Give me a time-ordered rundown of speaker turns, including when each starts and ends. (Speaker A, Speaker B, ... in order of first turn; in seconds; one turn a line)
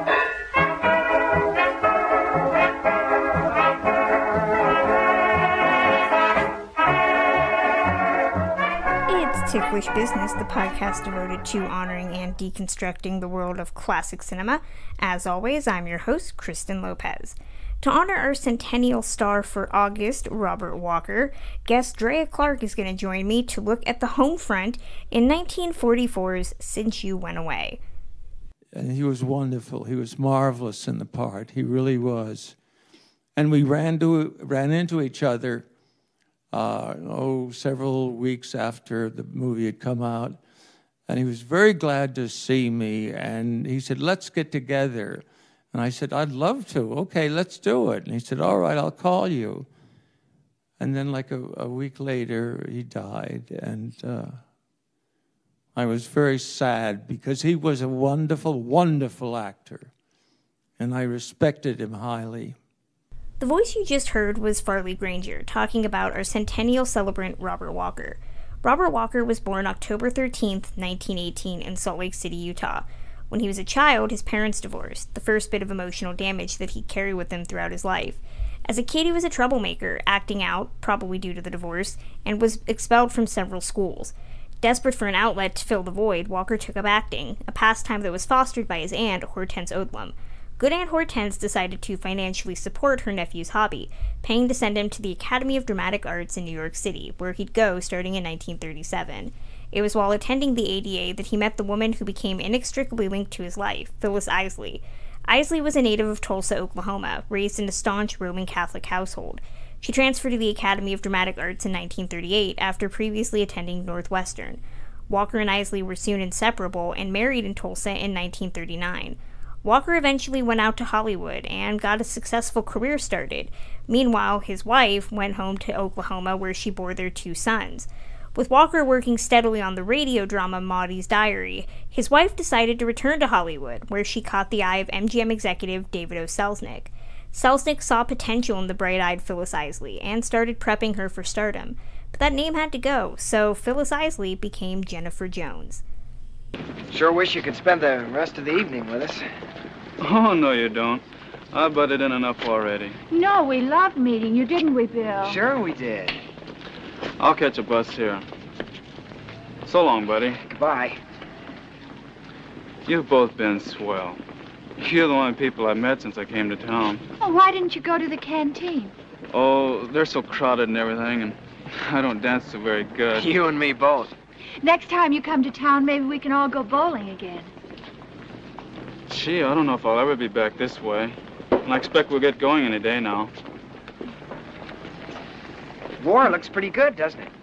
Speaker A: 9.1-27.8
Speaker B: 28.7-32.6
Speaker B: 33.4-35.7
Speaker B: 36.5-40.4
Speaker B: 41.1-49.7
Speaker B: 50.8-54.5
Speaker B: 55.7-59.9
Speaker B: 60.8-62.6
Speaker A: 63.4-145.8
Speaker C: 146.9-149.2
Speaker D: 150.0-153.0
Speaker E: 153.1-155.4
Speaker C: 155.2-156.2
Speaker D: 157.2-158.2
Speaker D: 159.7-160.4
Speaker C: 160.5-161.0
Speaker D: 162.9-164.2
Speaker D: 164.8-167.1
Speaker E: 167.2-168.9
Speaker D: 169.3-173.3
Speaker C: 173.1-174.1
Speaker E: 174.6-177.5
Speaker D: 179.1-183.3
Speaker C: 186.0-187.3